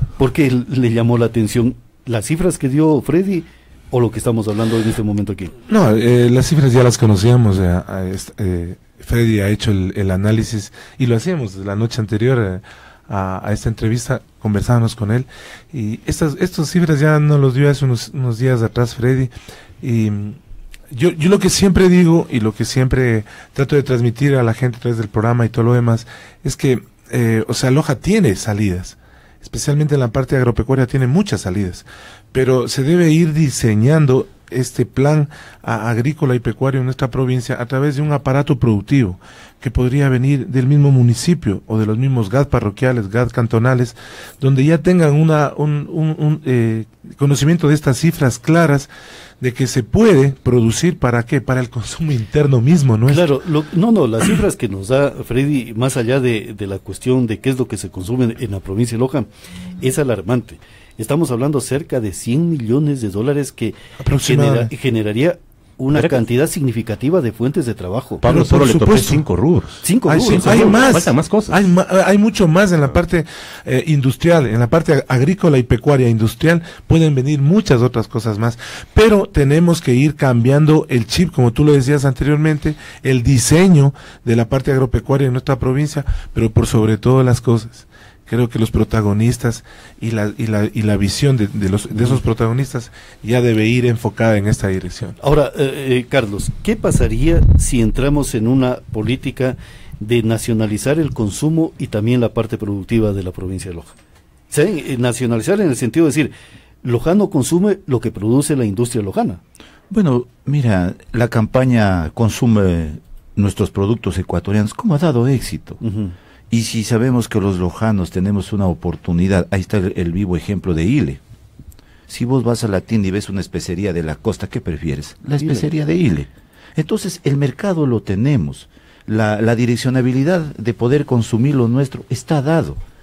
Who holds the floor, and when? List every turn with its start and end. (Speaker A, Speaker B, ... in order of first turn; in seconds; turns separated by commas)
Speaker A: 0.2-5.5, Speaker B: 5.7-20.4, Speaker B: 20.9-48.9, Speaker B: 49.4-53.3, Speaker A: 53.1-59.3, Speaker A: 59.8-68.5, Speaker B: 64.0-64.7, Speaker C: 65.9-66.2, Speaker C: 68.2-71.6, Speaker B: 68.2-69.2, Speaker A: 69.8-70.9, Speaker B: 70.0-95.2, Speaker A: 91.9-92.2, Speaker A: 95.2-103.9, Speaker A: 104.5-106.3, Speaker A: 106.8-109.4, Speaker D: 109.9-115.8, Speaker A: 115.8-116.1, Speaker D: 116.5-121.2, Speaker D: 122.1-132.8, Speaker A: 125.4-125.7